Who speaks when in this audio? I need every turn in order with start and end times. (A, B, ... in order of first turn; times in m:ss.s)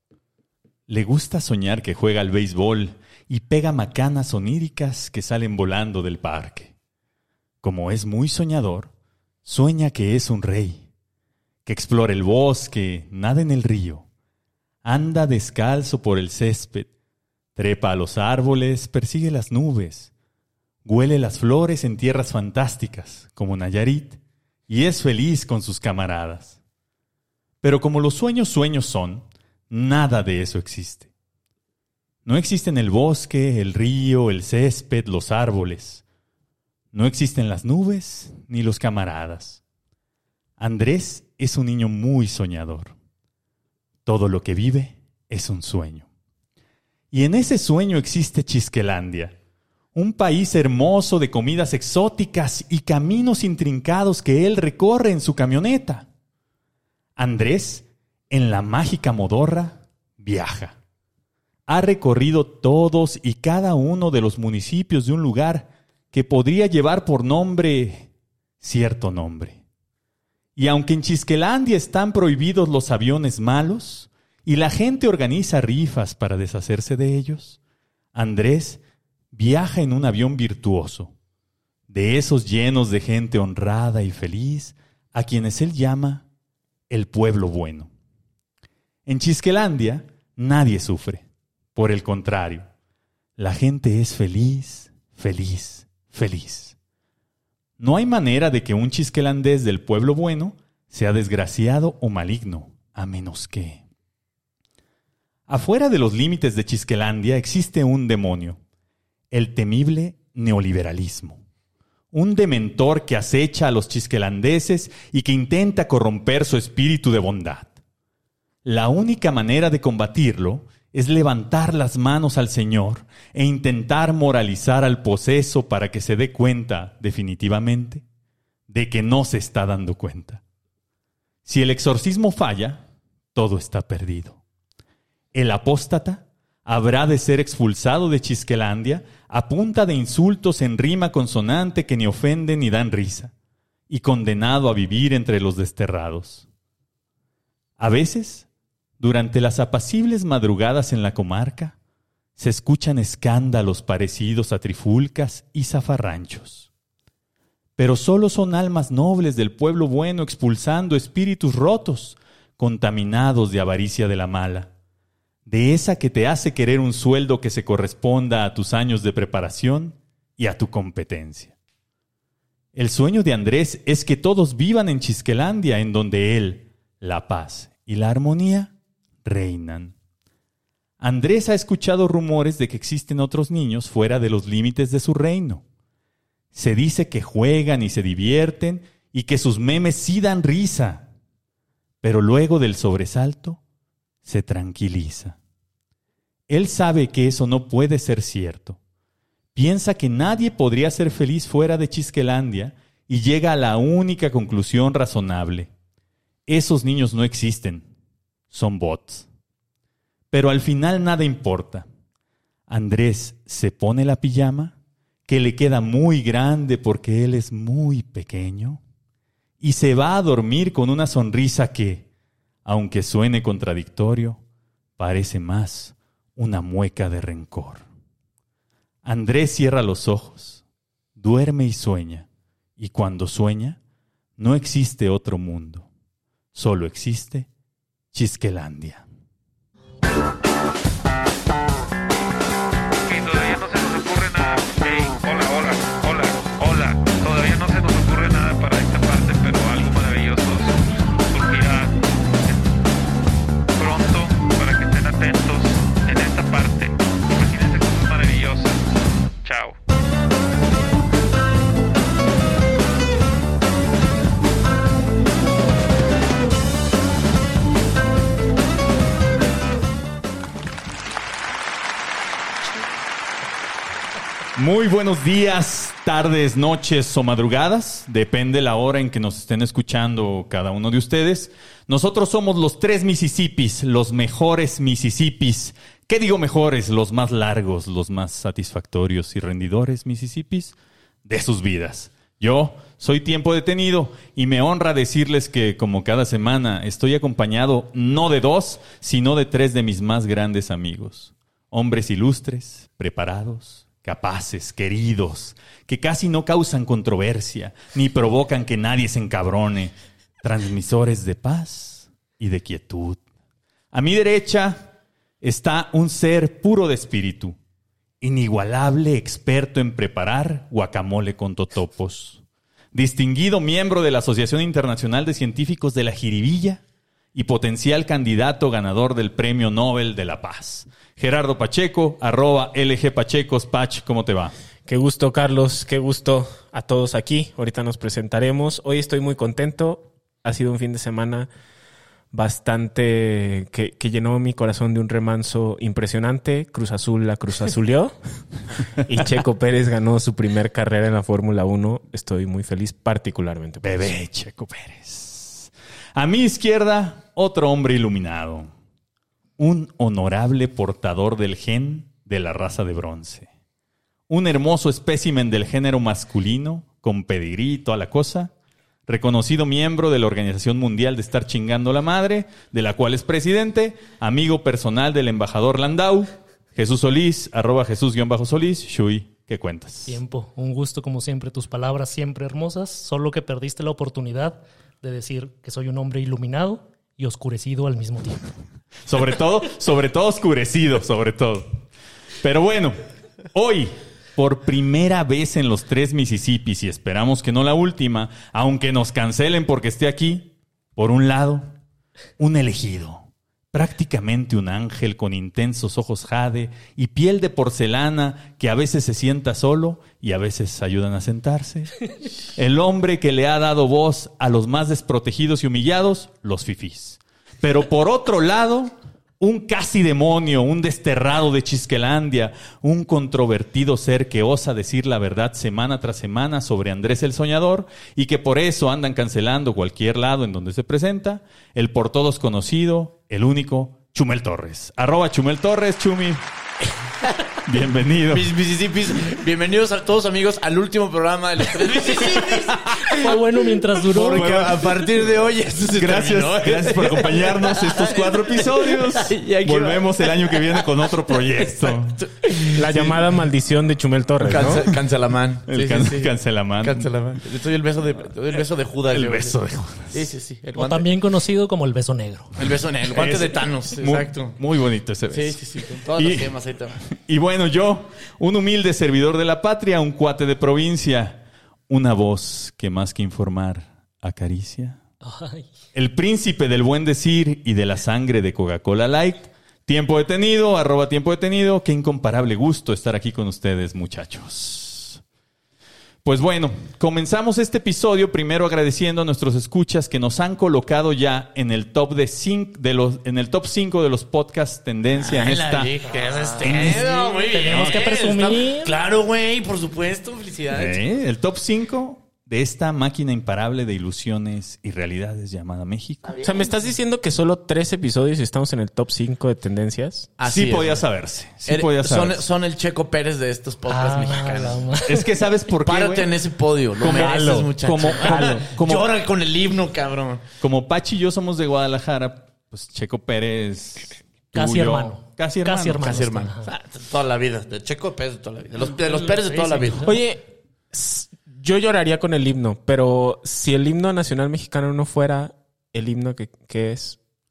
0:00.9-0:06.7 A
0:07.6-0:08.9 A
0:09.4-0:10.8 A
0:11.6-0:14.0 A
0:14.8-0:16.9 A
0:17.6-0:20.1 A
0:20.8-0:26.6 A
0:27.6-0:31.1 A
0:32.2-0:36.0 A
0:36.9-0:39.6 A
0:40.6-0:42.9 A
0:44.0-0:46.1 A
0:47.1-0:49.3 A
0:49.9-0:56.0 A
0:57.2-1:00.8 A
1:01.7-1:08.1 A
1:08.6-1:09.6 A
1:10.6-1:17.6 A
1:18.1-1:18.8 A
1:19.3-1:21.1 A
1:21.9-1:26.2 A
1:26.9-1:27.9 A
1:29.1-1:32.7 A
1:33.4-1:36.7 A
1:37.8-1:43.8 A
1:45.5-1:48.6 A
1:49.3-1:51.4 A
1:52.1-1:57.7 A
1:58.6-2:08.0 A
2:08.7-2:10.4 A
2:11.4-2:12.8 A
2:13.3-2:14.4 A
2:15.3-2:23.3 A
2:23.9-2:26.4 A
2:27.8-2:28.4 A
2:29.0-2:31.7 A
2:32.4-2:36.7 A
2:37.8-2:44.7 A
2:45.5-2:51.5 A
2:52.7-2:58.7 A
2:59.2-2:59.9 A
3:01.0-3:05.6 A
3:06.5-3:11.1 A
3:12.0-3:13.6 A
3:14.2-3:15.4 A
3:16.5-3:18.8 A
3:19.5-3:25.7 A
3:26.5-3:27.9 A
3:28.5-3:29.2 A
3:30.3-3:31.8 A
3:32.7-3:34.7 A
3:35.2-3:38.8 A
3:39.6-3:42.0 A
3:42.6-3:44.4 A
3:45.0-3:47.8 A
3:49.0-3:50.6 A
3:51.2-3:52.3 A
3:52.8-3:53.8 A
3:54.4-3:55.9 A
3:56.5-3:57.5 A
3:58.1-3:59.0 A
4:03.0-4:12.7 B
4:13.7-4:18.9 B
4:19.4-4:19.8 B
4:34.6-5:13.2 A
5:13.9-5:14.9 A
5:15.4-5:17.6 A
5:18.2-5:22.4 A
5:22.9-5:26.8 A
5:27.3-5:34.5 A
5:34.9-5:41.5 C
5:42.3-5:48.2 C
5:49.0-5:54.0 C
5:53.8-5:58.7 A
5:59.6-6:03.5 A
6:04.3-6:08.5 A
6:09.1-6:20.2 A
6:20.1-6:28.5 D
6:29.1-6:31.8 A
6:32.4-6:33.0 A
6:33.5-6:41.7 A
6:42.4-6:52.0 A
6:52.5-7:16.4 A
7:17.6-7:18.5 A
7:18.3-7:33.1 E
7:23.1-7:24.5 D
7:24.3-7:25.0 A
7:26.0-7:32.2 A
7:32.7-7:34.8 C
7:34.4-7:39.6 E
7:35.7-7:37.1 A
7:39.1-7:40.2 A
7:40.1-7:41.1 E
7:40.7-7:42.6 D
7:42.6-7:44.6 E
7:43.1-7:45.6 A
7:45.3-7:47.0 E
7:46.2-7:46.5 A
7:47.1-7:55.0 A
7:55.2-7:55.7 D
7:55.9-8:05.2 A
8:06.2-8:15.9 A
8:15.2-8:21.0 E
8:16.6-8:18.9 D
8:20.7-8:26.3 A
8:26.4-8:30.3 C
8:30.4-8:31.1 E
8:30.4-8:32.4 A
8:31.6-8:34.9 E
8:33.9-8:35.3 D
8:35.0-8:36.3 A
8:35.8-8:40.4 E
8:37.0-8:39.1 A
8:40.6-8:46.3 A
8:44.5-8:46.7 D
8:46.0-8:50.1 E
8:49.0-8:50.2 D
8:50.0-8:57.2 C